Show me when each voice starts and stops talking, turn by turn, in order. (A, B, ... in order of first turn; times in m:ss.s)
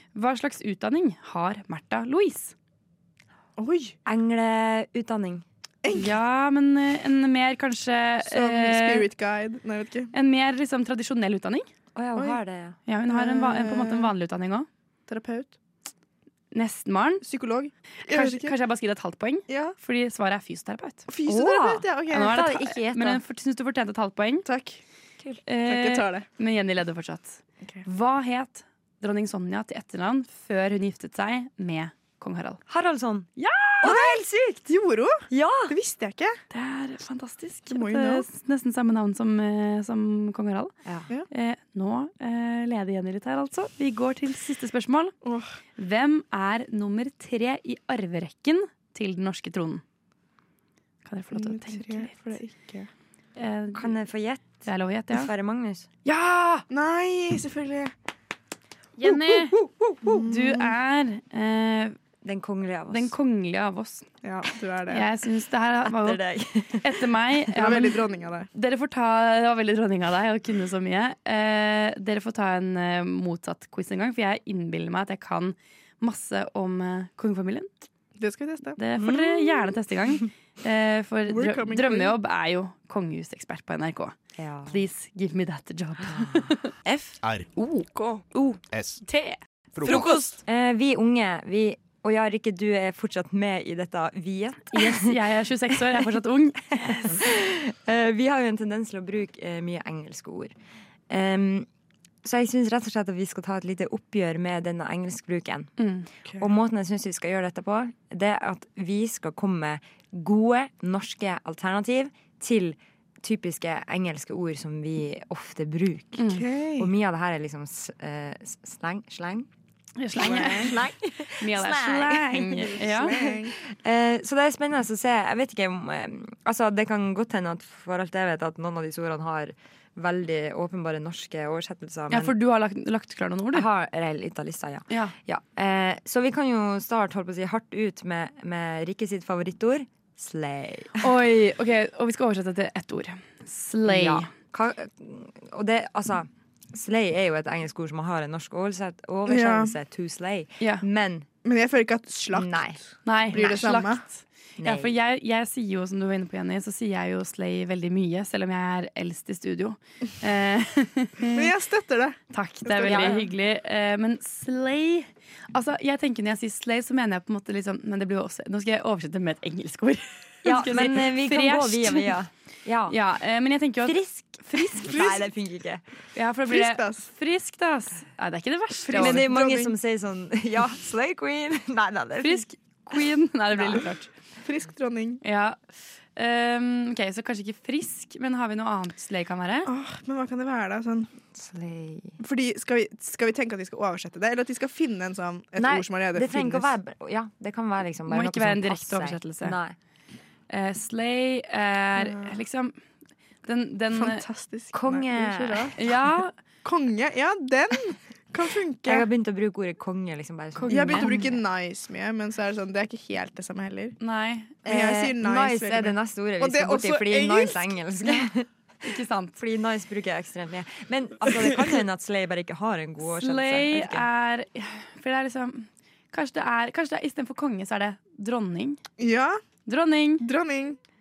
0:00.2-0:02.5 A
0:03.6-0:04.0 B
0:04.0-0:05.4 C
0:05.8-0:06.1 B
0:05.9-0:09.1 A
0:08.2-0:10.1 B
0:10.1-0:11.7 A
0:12.0-0:12.8 C
0:12.9-0:14.7 A
0:13.1-0:14.1 B
0:15.1-0:15.6 B
0:16.5-0:17.2 A
0:17.2-0:18.5 B
0:18.1-0:21.1 A
0:19.5-0:19.7 B
0:21.1-0:22.4 B
0:21.3-0:23.2 C
0:22.1-0:24.5 A
0:24.4-0:24.8 B
0:25.4-0:32.6 A
0:25.6-0:26.3 B
0:32.7-0:33.3 C
0:33.4-0:34.0 A
0:33.8-0:34.6 C
0:33.8-0:36.4 B
0:35.3-0:35.8 C
0:36.5-0:40.7 A
0:37.7-0:38.3 B
0:41.3-0:45.2 A
0:45.2-0:45.5 B
0:45.8-0:49.8 A
0:51.0-0:52.4 A
0:51.3-0:52.9 B
0:53.4-0:53.9 A
0:53.8-0:55.9 C
0:54.6-0:55.3 A
0:56.0-0:56.7 A
0:56.7-0:57.9 B
0:59.0-0:59.6 A
1:00.0-1:00.7 B
1:00.2-1:02.0 A
1:02.2-1:03.1 C
1:02.9-1:04.1 A
1:04.2-1:05.1 B
1:04.9-1:06.2 A
1:05.9-1:06.9 C
1:06.8-1:17.7 A
1:07.5-1:08.5 B
1:18.2-1:18.8 B
1:18.8-1:24.2 A
1:21.3-1:22.2 B
1:24.4-1:24.8 C
1:24.7-1:26.7 A
1:26.1-1:26.5 C
1:27.6-1:28.0 A
1:29.1-1:30.2 A
1:30.4-1:35.2 C
1:34.7-1:37.1 A
1:36.8-1:40.5 C
1:41.1-1:41.7 C
1:42.2-1:45.7 C
1:45.8-1:46.1 A
1:46.4-1:56.2 C
1:56.2-1:56.5 A
1:56.2-1:56.9 B
1:56.8-1:59.5 C
2:00.0-2:03.2 A
2:00.2-2:02.7 C
2:00.3-2:00.6 B
2:02.8-2:03.5 B
2:03.6-2:12.3 C
2:12.1-2:13.7 A
2:13.5-2:21.0 C
2:14.9-2:15.2 A
2:21.0-2:24.4 A
2:23.8-2:31.3 C
2:29.3-2:29.7 B
2:31.4-2:34.0 B
2:32.3-2:32.8 C
2:33.0-2:41.5 A
2:34.6-2:34.9 C
2:41.3-2:43.2 B
2:42.3-2:52.2 A
2:42.8-2:43.2 C
2:50.4-2:53.0 C
2:52.9-2:55.0 A
2:53.8-2:55.8 C
2:54.9-2:55.2 B
2:56.2-2:59.3 A
2:56.5-2:57.1 B
2:58.9-2:59.7 B
2:58.9-3:02.5 C
3:02.2-3:04.1 A
3:04.4-3:05.2 B
3:05.2-3:05.6 A
3:06.2-3:09.7 A
3:09.7-3:11.1 B
3:11.3-3:12.2 C
3:12.2-3:16.7 B
3:15.6-3:19.8 C
3:18.1-3:19.6 A
3:20.5-3:22.8 A
3:22.0-3:22.3 B
3:23.4-3:24.2 A
3:24.0-3:25.7 B
3:24.7-3:25.7 C
3:25.8-3:26.3 A
3:26.6-3:29.1 B
3:28.8-3:31.4 C
3:30.6-3:34.0 B
3:30.7-3:31.0 A
3:34.0-3:34.7 A
3:34.6-3:37.8 B
3:34.6-3:38.5 C
3:38.8-3:39.4 A
3:39.4-3:44.0 C
3:43.0-3:48.8 A
3:49.0-3:49.4 B
3:49.7-3:50.2 A
3:50.2-3:50.8 B